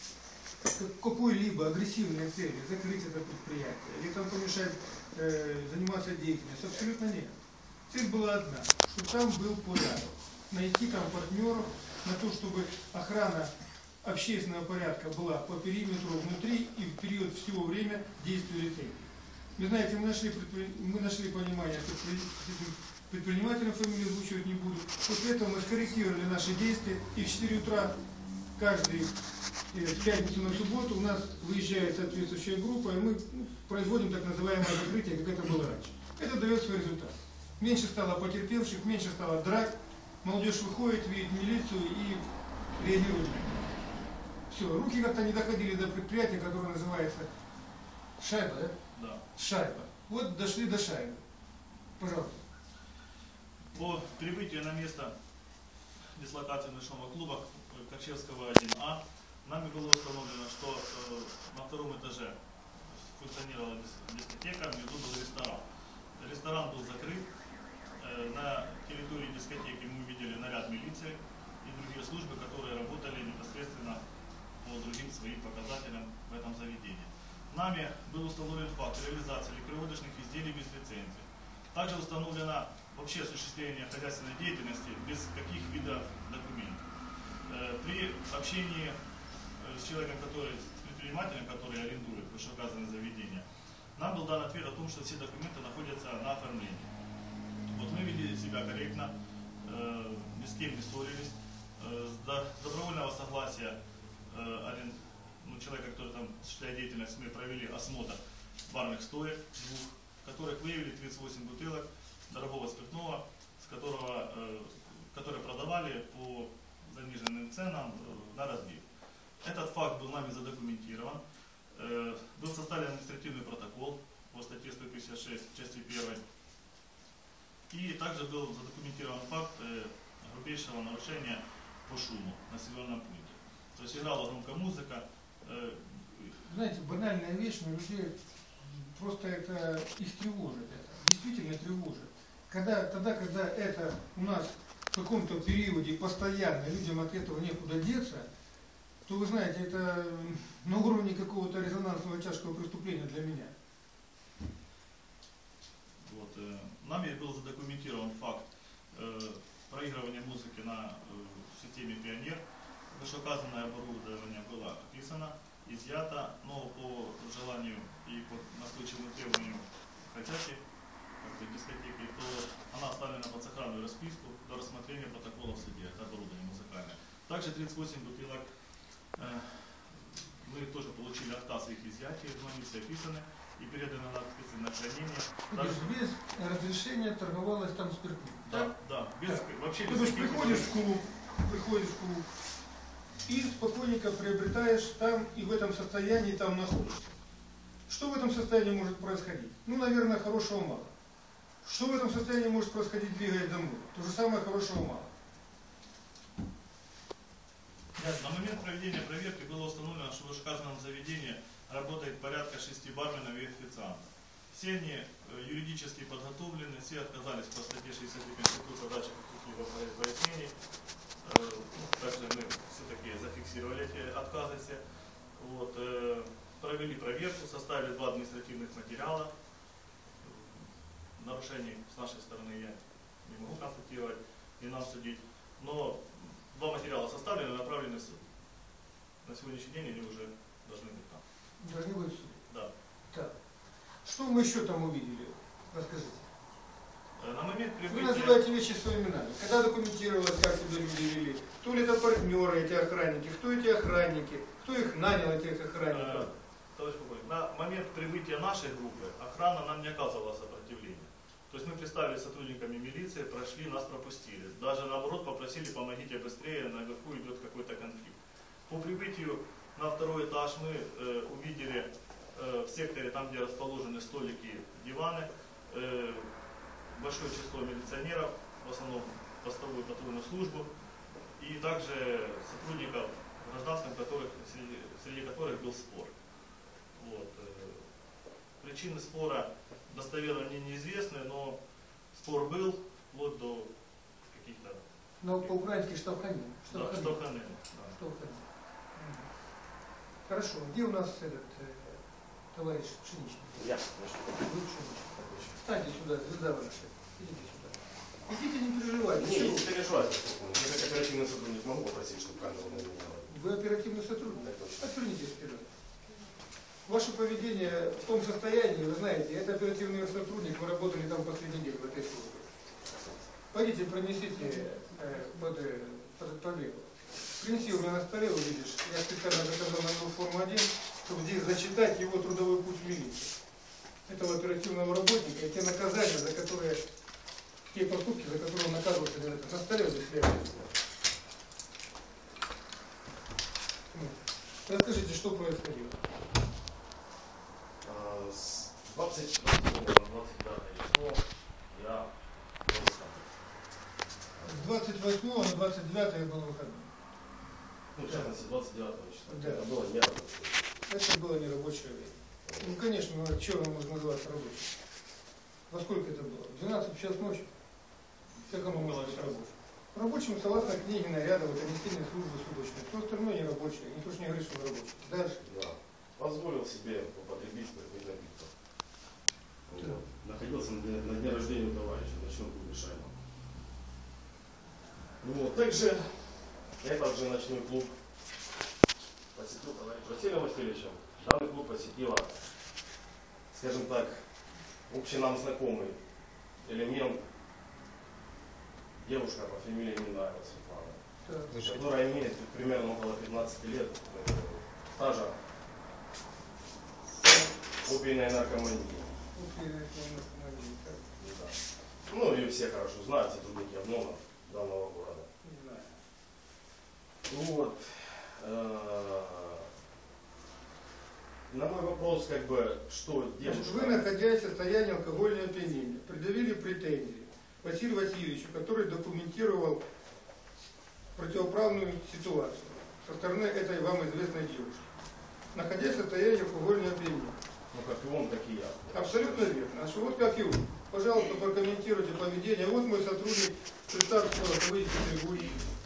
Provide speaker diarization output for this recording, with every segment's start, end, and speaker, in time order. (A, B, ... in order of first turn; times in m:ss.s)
0:00.6-0:07.3 A
0:07.9-0:13.5 A
0:14.0-0:28.0 A
0:28.6-0:29.1 A
0:29.7-0:42.2 A
0:42.8-0:43.5 A
0:44.5-0:47.3 A
0:48.2-0:48.7 A
0:48.9-0:49.2 B
0:49.3-0:51.2 A
0:52.0-0:52.4 A
0:53.7-0:55.1 B
0:56.1-1:05.6 B
1:06.2-1:07.3 B
1:08.0-1:14.0 B
1:14.6-1:26.8 B
1:27.4-1:29.0 B
1:29.6-1:33.4 B
1:33.9-1:36.9 B
1:37.6-1:43.8 B
1:44.3-1:58.8 B
1:59.4-2:06.2 B
2:07.7-2:16.4 B
2:16.4-2:28.3 A
2:29.0-2:33.5 A
2:36.0-2:50.6 B
2:51.2-2:58.4 B
2:59.2-3:05.9 B
3:05.5-3:08.7 A
3:08.5-3:10.7 B
3:09.2-3:12.2 A
3:13.2-3:17.1 A
3:17.9-3:20.9 A
3:21.6-3:25.1 A
3:28.0-3:40.5 B
3:41.2-3:44.8 B
3:45.3-3:49.3 B
3:50.2-3:58.2 B
3:59.2-4:01.2 B
4:01.6-4:02.4 A
4:04.0-4:06.3 A
4:07.2-4:08.4 B
4:07.9-4:16.3 A
4:15.9-4:36.3 B
4:36.9-4:40.7 B
4:41.4-4:46.1 B
4:47.0-4:47.8 B
4:48.6-4:51.6 B
4:52.1-4:53.7 B
4:54.3-4:55.6 B
4:55.2-4:57.2 A
4:56.7-4:58.0 B
4:57.9-4:58.4 A
4:58.9-4:59.3 A
5:00.3-5:02.0 A
5:02.5-5:03.6 A
5:03.6-5:04.4 C
5:04.4-5:09.7 A
5:05.2-5:05.6 C
5:09.1-5:13.3 C
5:13.3-5:15.7 A
5:14.3-5:14.9 C
5:16.8-5:22.5 A
5:23.5-5:26.9 A
5:27.4-5:33.3 A
5:34.1-5:36.8 A
5:37.7-5:40.6 A
5:43.9-5:46.0 A
5:47.8-5:53.3 C
5:54.4-5:54.7 C
5:54.4-5:56.9 A
5:57.9-6:00.6 C
5:58.0-5:58.3 A
5:59.3-5:59.7 A
6:00.9-6:04.7 A
6:02.4-6:02.8 C
6:05.7-6:07.5 A
6:08.3-6:09.5 B
6:08.5-6:15.4 A
6:15.4-6:18.5 C
6:19.7-6:23.2 C
6:25.2-6:27.9 C
6:29.3-6:32.3 C
6:33.5-6:34.2 C
6:34.9-6:36.0 C
6:36.6-6:37.2 C
6:39.0-6:41.0 C
6:41.2-6:41.6 A
6:41.6-6:45.3 C
6:47.8-6:49.1 C
6:49.3-6:51.1 A
6:51.2-6:51.5 C
6:52.1-6:55.3 C
6:55.4-6:55.9 A
6:57.2-6:59.6 C
7:01.5-7:04.1 C
7:03.4-7:09.8 A
7:11.1-7:14.8 A
7:15.5-7:17.4 A
7:17.7-7:19.5 C
7:18.9-7:25.6 A